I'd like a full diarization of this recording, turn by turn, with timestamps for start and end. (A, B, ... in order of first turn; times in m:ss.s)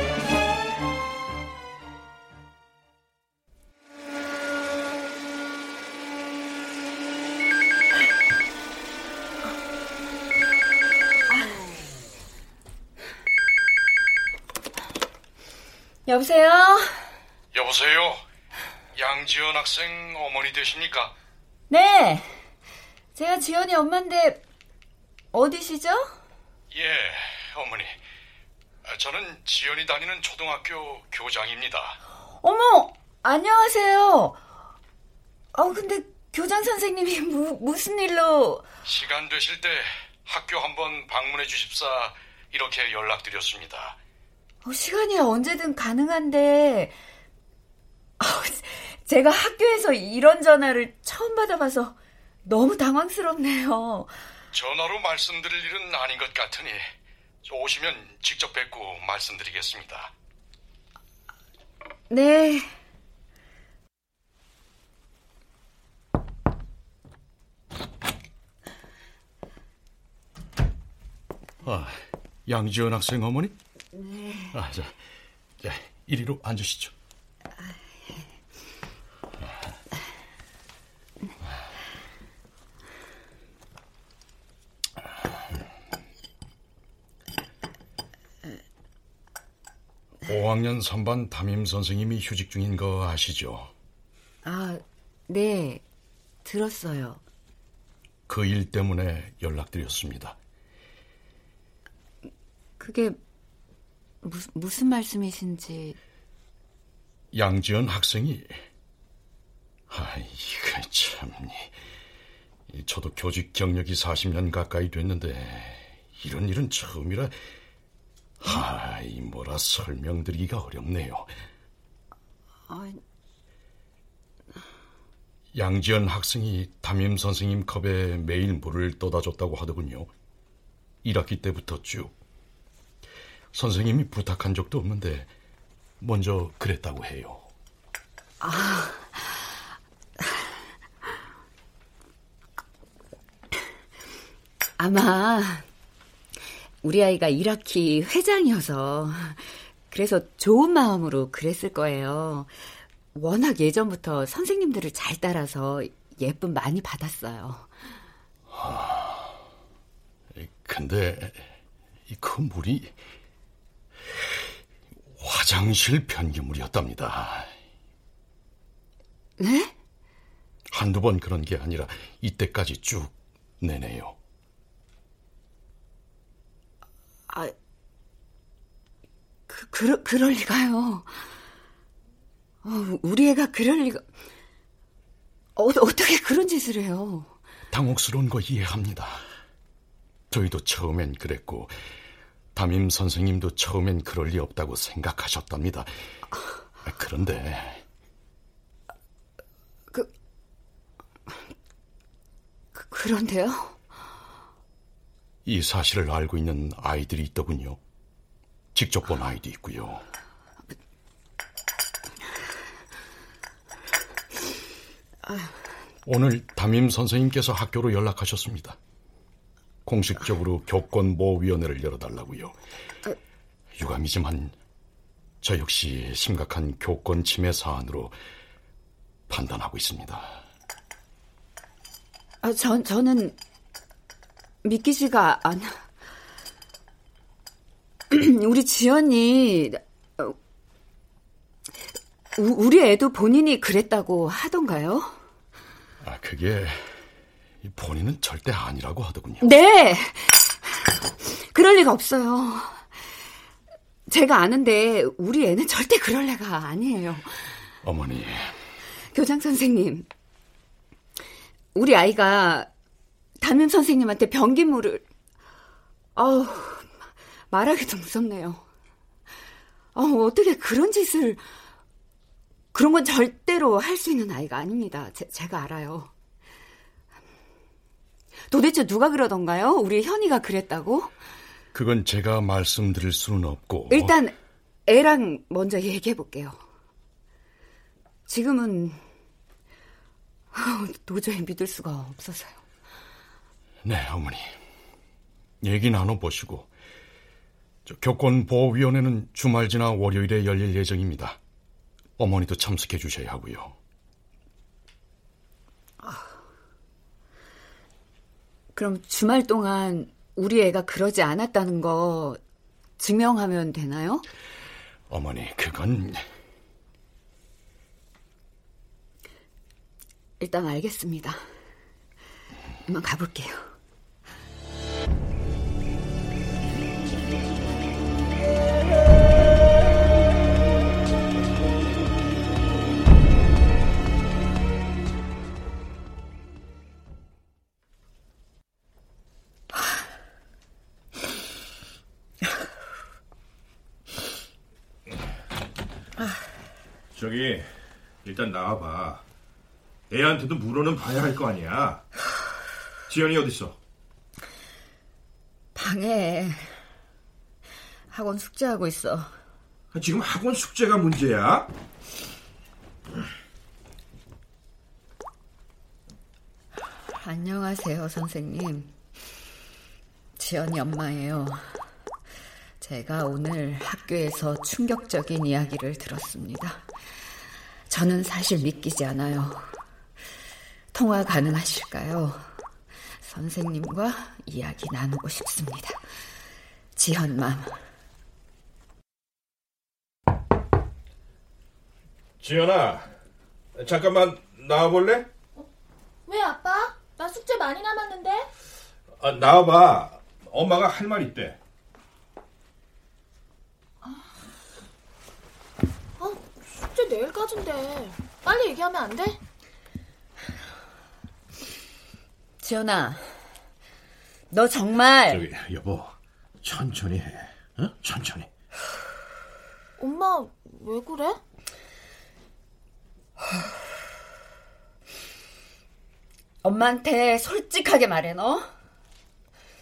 0:16.1-0:17.1 A
0:17.5-0:18.2 B
0:18.9-0:21.1 B
0:21.7-0:22.4 A
0:23.1-0:24.4 A
0:25.3-0:26.2 A
0:26.7-0:28.0 B
0:28.8-0:32.0 B
0:32.4-0:34.4 A
0:35.5-0:38.6 A
0:38.8-0:44.0 B
0:44.6-0:46.9 A
0:48.2-0:54.2 A
0:54.5-1:00.1 B
1:02.1-1:02.7 A
1:11.6-1:13.6 B
1:13.9-1:14.5 A
1:14.5-1:14.9 B
1:15.6-1:16.9 B
1:30.2-1:33.7 B
1:34.4-1:35.8 A
1:36.4-1:37.2 A
1:38.3-1:40.4 B
1:42.8-1:43.2 A
1:44.2-1:46.0 A
1:47.3-1:48.6 B
1:49.9-1:51.7 B
1:52.7-1:57.4 B
1:58.4-2:01.3 B
2:02.7-2:03.0 A
2:05.5-2:10.1 B
2:11.0-2:12.1 B
2:13.5-2:15.3 B
2:16.0-2:17.4 B
2:18.4-2:19.6 A
2:24.8-2:25.6 A
2:26.8-2:32.5 A
2:33.1-2:37.7 A
2:38.5-2:39.4 B
2:40.3-2:41.5 B
2:42.1-2:43.0 B
2:45.2-2:47.5 B
2:49.4-2:49.7 A
2:50.7-2:54.2 B
2:57.3-2:57.5 A
2:59.5-3:01.2 A
3:02.6-3:04.0 A
3:05.6-3:07.3 A
3:07.7-3:09.2 B
3:10.3-3:11.7 B
3:12.5-3:15.9 B
3:16.8-3:17.8 B
3:22.7-3:23.8 A
3:25.4-3:27.8 B
3:28.7-3:30.0 B
3:35.2-3:35.5 A
3:36.0-3:38.8 B
3:39.8-3:42.6 B
3:43.8-3:44.6 B
3:45.4-3:48.2 B
3:49.3-3:50.4 B
3:52.4-3:53.4 A
3:54.6-3:55.8 A
3:58.1-4:00.4 A
4:02.4-4:05.1 A
4:06.0-4:07.0 B
4:07.6-4:09.5 B
4:09.4-4:12.9 A
4:14.1-4:17.6 A
4:17.8-4:18.6 B
4:19.1-4:20.1 A
4:21.7-4:22.7 A
4:23.4-4:25.0 A
4:26.2-4:28.6 A
4:29.9-4:31.4 A
4:32.7-4:36.1 A
4:38.5-4:41.1 A
4:41.7-4:44.2 B
4:43.9-4:44.4 A
4:44.9-4:46.6 A
4:48.3-4:49.0 A
4:50.5-4:52.6 A
4:53.8-4:54.6 B
4:55.6-4:56.7 B
4:57.8-5:01.4 B
5:02.2-5:03.8 B
5:06.0-5:06.3 A
5:08.7-5:12.4 A
5:13.0-5:14.2 A
5:15.1-5:16.2 B
5:20.4-5:21.4 A
5:22.9-5:23.7 A
5:47.1-5:47.7 C
5:48.2-5:49.2 C
5:50.1-5:52.0 C
5:53.1-5:53.8 C
5:55.7-5:56.8 A
5:58.1-5:59.3 A
5:59.9-6:01.7 C
6:07.1-6:08.9 A
6:10.4-6:11.8 A
6:12.8-6:16.8 A
6:17.9-6:19.8 A
6:20.9-6:22.5 A
6:23.2-6:26.0 A
6:27.0-6:27.8 A
6:32.4-6:33.1 C
6:33.7-6:35.3 C
6:36.2-6:38.5 D
6:39.2-6:41.6 C
6:46.2-6:49.4 D
6:52.6-6:53.2 A
6:54.5-6:55.4 A
6:55.3-6:58.5 C
7:00.0-7:01.4 D
7:06.6-7:08.7 A